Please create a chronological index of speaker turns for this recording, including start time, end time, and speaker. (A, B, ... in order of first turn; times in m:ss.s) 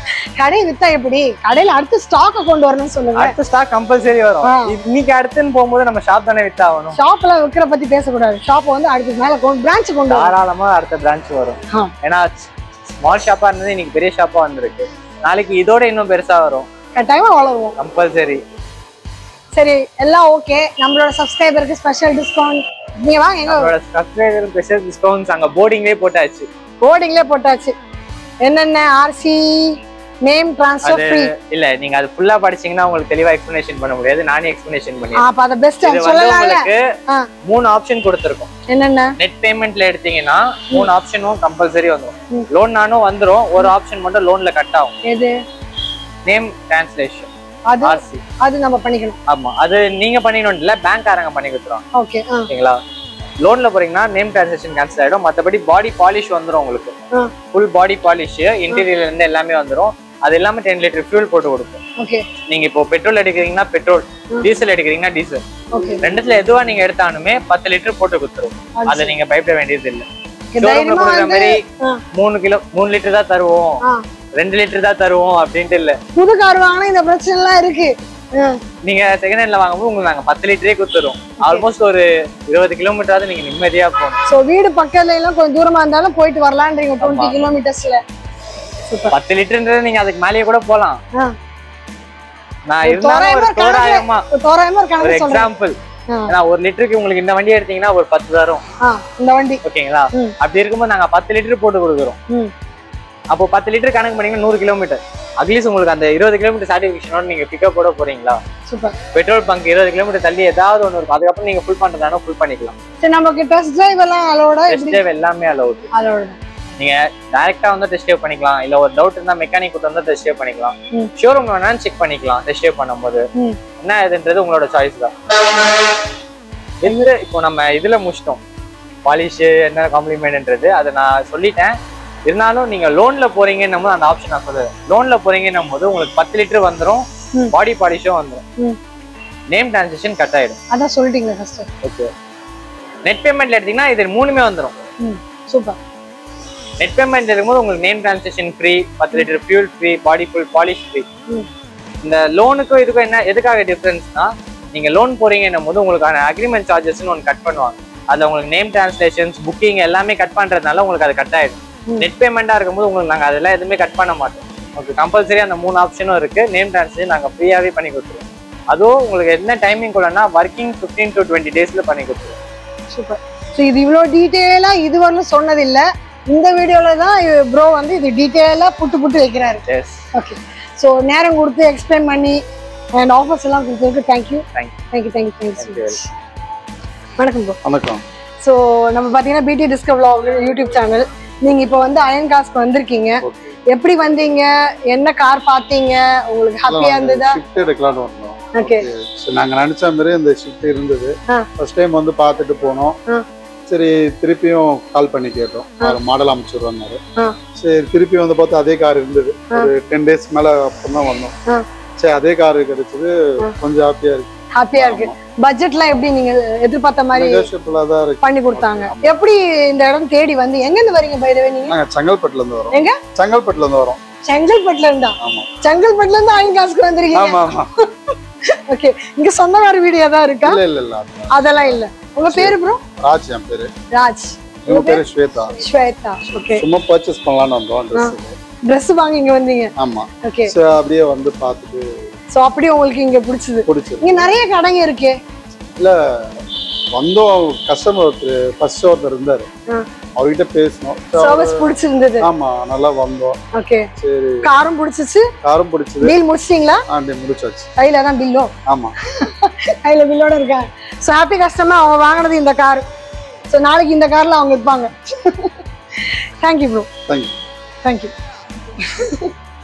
0:00.4-0:03.3 A
0:03.1-0:07.0 B
0:04.4-0:04.8 A
0:07.0-0:10.3 A
0:10.1-0:12.5 B
0:13.0-0:16.7 B
0:16.9-0:17.7 A
0:17.8-0:18.4 B
0:19.5-0:23.7 A
0:23.4-0:26.5 B
0:26.8-0:27.7 A
0:28.4-0:29.7 A
0:30.2-0:31.3 A
0:30.8-0:35.2 B
0:35.2-0:37.2 A
0:35.8-0:36.8 B
0:37.4-0:38.5 B
0:38.7-0:39.1 A
0:39.2-0:44.9 B
0:45.0-0:45.3 A
0:46.2-0:47.3 B
0:47.7-0:49.2 A
0:47.8-0:48.2 B
0:49.3-0:51.8 B
0:51.9-0:52.5 A
0:52.5-0:52.8 B
0:53.4-0:56.9 B
0:57.5-1:01.8 B
1:02.0-1:02.2 A
1:02.5-1:05.4 B
1:05.7-1:06.0 A
1:06.0-1:10.0 B
1:08.8-1:09.1 A
1:10.5-1:12.0 A
1:10.6-1:11.6 B
1:12.1-1:13.8 B
1:14.4-1:16.0 B
1:16.2-1:18.6 A
1:18.8-1:24.2 B
1:24.3-1:28.0 A
1:27.0-1:27.4 B
1:28.9-1:29.1 A
1:29.1-1:31.0 B
1:32.7-1:34.2 B
1:32.8-1:35.5 A
1:35.0-1:35.7 B
1:36.3-1:38.6 B
1:38.8-1:39.6 A
1:39.6-1:42.2 B
1:43.3-1:48.4 B
1:48.7-1:48.9 A
1:49.1-1:52.8 B
1:53.0-1:55.0 A
1:54.7-1:55.9 B
1:55.9-1:56.4 A
1:56.8-2:03.2 B
2:03.8-2:05.1 B
2:06.8-2:08.4 B
2:09.0-2:11.7 B
2:12.3-2:18.4 B
2:19.5-2:20.6 B
2:20.7-2:21.7 A
2:21.8-2:22.1 B
2:23.0-2:24.8 B
2:25.0-2:25.8 A
2:26.8-2:31.1 B
2:32.0-2:52.4 B
2:52.9-2:59.6 A
2:59.7-3:00.0 B
3:00.1-3:02.4 A
3:03.0-3:06.1 A
3:05.6-3:06.0 B
3:07.2-3:07.6 A
3:07.6-3:08.0 C
3:08.4-3:17.4 A
3:13.2-3:13.5 C
3:16.7-3:23.0 C
3:18.5-3:18.9 A
3:23.7-3:27.0 C
3:27.6-3:31.3 C
3:32.0-3:35.2 C
3:34.6-3:37.5 A
3:37.1-3:39.2 C
3:38.2-3:41.8 A
3:41.7-3:44.0 C
3:44.3-3:47.5 A
3:45.2-3:45.5 C
3:47.1-3:47.7 C
3:48.7-3:50.6 A
3:50.4-3:53.7 C
3:51.3-3:52.8 A
3:53.9-3:55.0 A
3:54.6-3:55.6 C
3:55.6-3:56.6 A
3:56.4-3:58.3 C
3:58.7-3:59.7 A
3:59.8-4:01.9 C
4:00.2-4:00.5 A
4:02.3-4:05.1 A
4:03.7-4:04.3 C
4:05.8-4:06.4 C
4:06.9-4:09.5 C
4:10.2-4:13.4 C
4:11.2-4:12.3 A
4:13.5-4:13.9 A
4:14.0-4:14.4 C
4:14.4-4:15.2 A
4:15.4-4:16.2 C
4:16.0-4:16.8 A
4:16.9-4:17.7 C
4:17.8-4:18.5 A
4:18.7-4:18.9 C
4:19.1-4:22.8 A
4:23.5-4:26.9 A
4:27.1-4:27.3 C
4:27.8-4:28.1 A
4:28.8-4:29.3 A